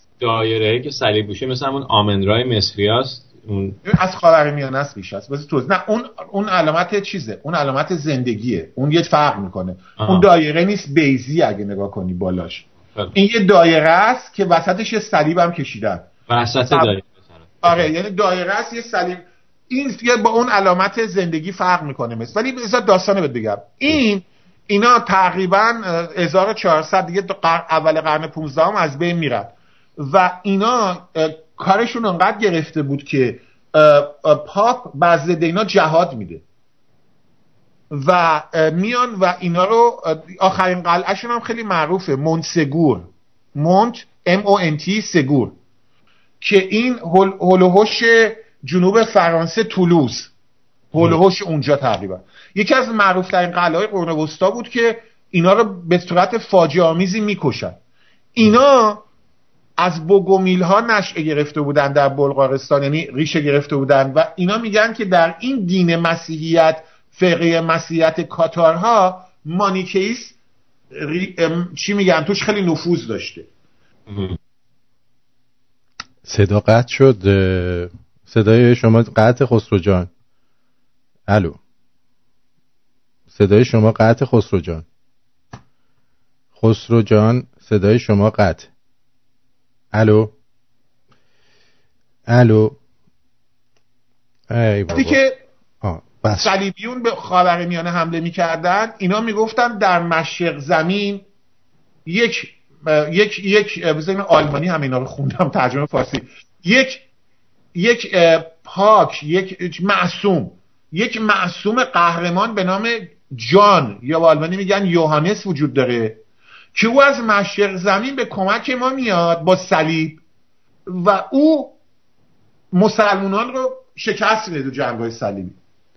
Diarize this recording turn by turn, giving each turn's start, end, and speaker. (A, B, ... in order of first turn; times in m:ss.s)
0:00.2-0:03.8 A
0:03.9-0:16.1 B
0:10.0-0:10.3 A
0:16.3-0:17.9 A
0:17.6-0:36.4 B
0:37.9-0:45.6 B
0:46.4-0:50.3 B
0:50.9-0:57.8 B
0:58.4-0:59.0 B
0:59.8-1:10.4 B
1:10.9-1:13.5 B
1:14.1-1:14.4 A
1:16.2-1:20.1 C
1:21.3-1:21.6 C
1:23.3-1:24.8 C
1:26.6-1:28.7 C
1:29.9-1:30.3 C
1:32.3-1:32.8 C
1:34.5-1:35.2 C
1:34.9-1:35.4 B
1:35.8-1:36.6 C
1:36.4-1:41.2 B
1:42.0-1:47.1 B
1:47.7-1:56.2 B
1:56.8-2:00.2 B
2:00.9-2:01.8 B
2:02.7-2:05.6 B